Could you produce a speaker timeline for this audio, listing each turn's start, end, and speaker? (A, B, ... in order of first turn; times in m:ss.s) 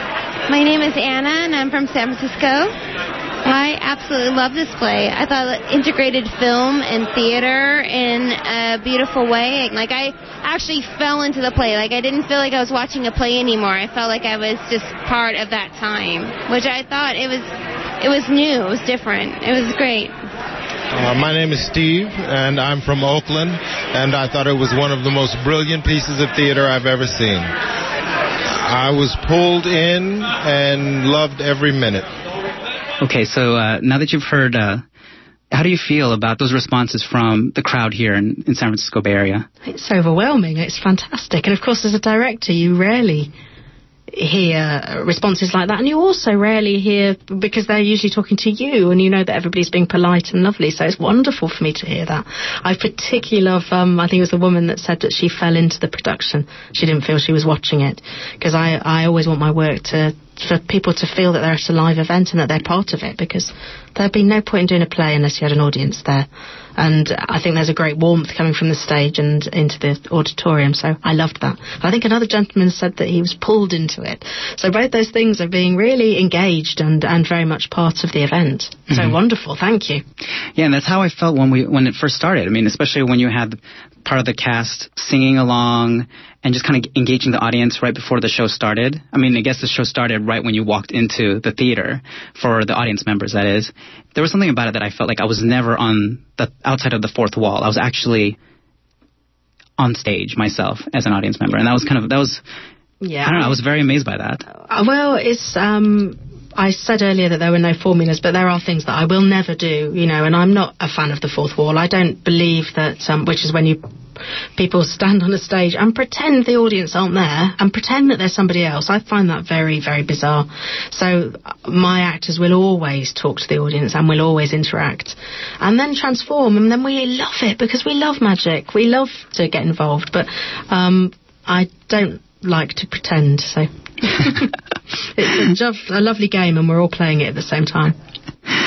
0:00.5-0:02.7 A
0:03.4-0:17.5 A
0:18.0-0:20.2 A
0:21.0-0:27.5 B
0:28.5-0:32.1 B
0:33.0-0:34.8 C
0:35.5-0:39.5 C
0:39.6-0:43.3 D
0:44.1-1:20.0 D
1:20.6-1:38.4 C
1:39.8-1:42.4 C
1:43.0-1:43.6 D
1:43.2-1:44.4 C
1:44.7-1:53.8 D
1:54.6-2:14.5 D
2:15.2-2:18.0 D